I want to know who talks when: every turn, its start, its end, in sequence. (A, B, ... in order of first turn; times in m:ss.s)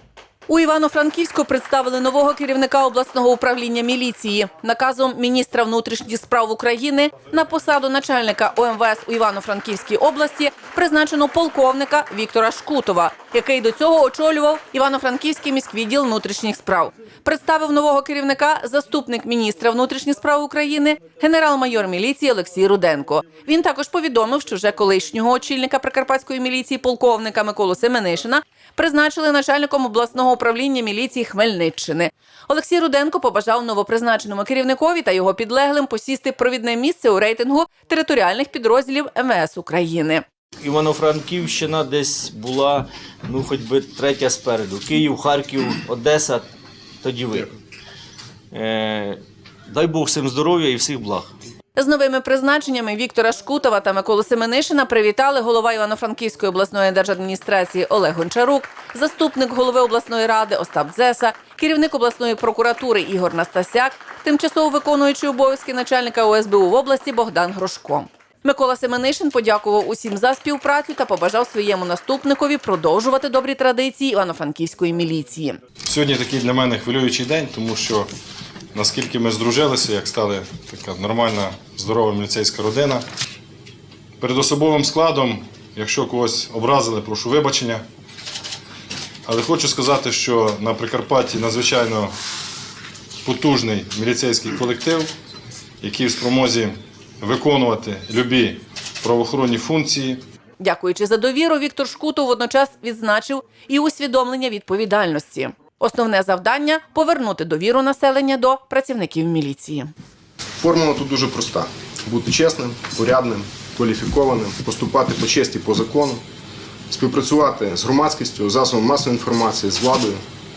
0:00.5-0:40.2 A
0:40.6-0:46.5 B
0:47.0-0:47.6 B
0:48.5-0:51.3 B
0:51.8-1:15.6 A
1:15.9-1:18.1 C
1:18.7-1:23.0 C
1:24.2-1:27.8 C
1:29.3-1:32.1 C
1:33.2-1:35.1 C
1:35.8-1:40.2 C
1:40.6-1:49.9 A
1:50.6-1:56.2 D
1:56.9-2:00.2 D